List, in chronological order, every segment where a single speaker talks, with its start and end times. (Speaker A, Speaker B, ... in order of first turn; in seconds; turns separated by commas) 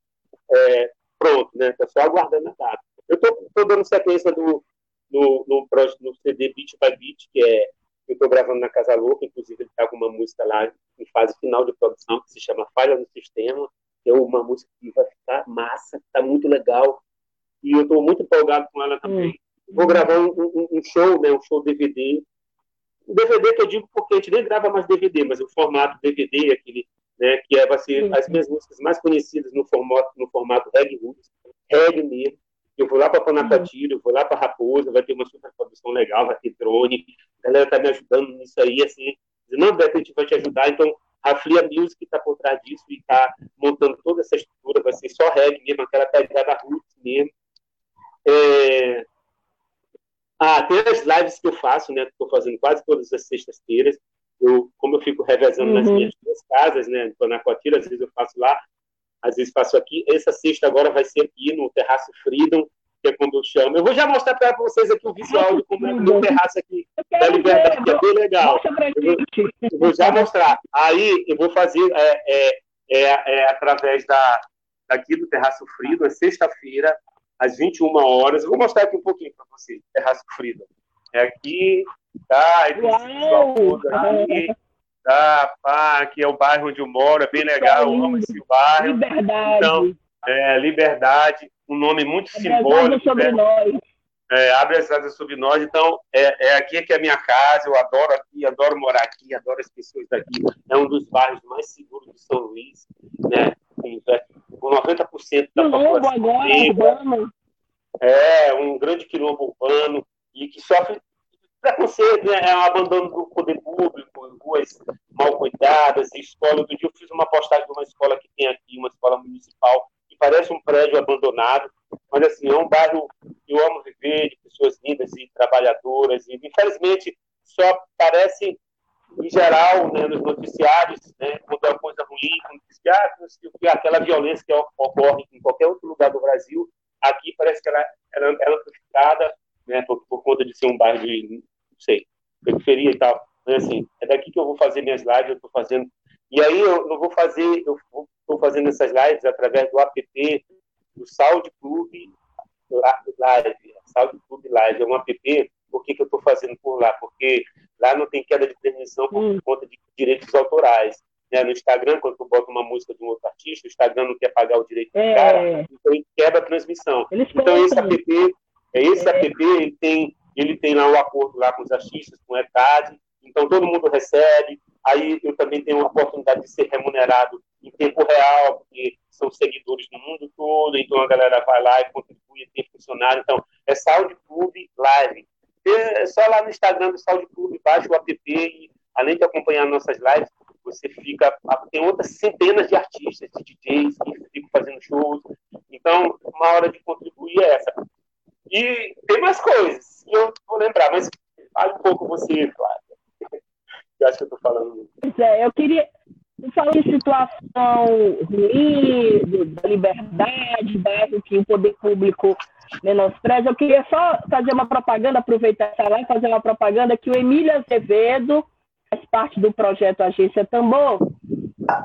Speaker A: 0.5-17.0, Speaker A: 17.6-22.2, Speaker B: 19.1-20.0, Speaker A: 23.1-47.3, Speaker B: 28.0-28.4, Speaker B: 33.4-33.7, Speaker A: 48.3-49.0, Speaker A: 50.4-58.6, Speaker B: 55.6-56.1, Speaker A: 59.2-69.2, Speaker B: 65.3-66.4, Speaker B: 67.0-70.3, Speaker A: 69.7-84.5, Speaker B: 82.8-84.5, Speaker A: 85.1-93.4, Speaker B: 87.3-90.0, Speaker B: 92.3-93.8, Speaker A: 94.3-107.0, Speaker B: 105.6-107.3, Speaker A: 108.0-111.0, Speaker A: 111.6-128.6, Speaker A: 129.2-150.5, Speaker A: 151.0-152.2, Speaker A: 152.7-197.8, Speaker B: 159.1-159.4, Speaker B: 164.9-165.7, Speaker B: 167.1-168.0, Speaker B: 169.0-169.3, Speaker A: 198.5-203.0, Speaker A: 204.0-204.9, Speaker B: 205.0-205.9, Speaker B: 206.4-221.1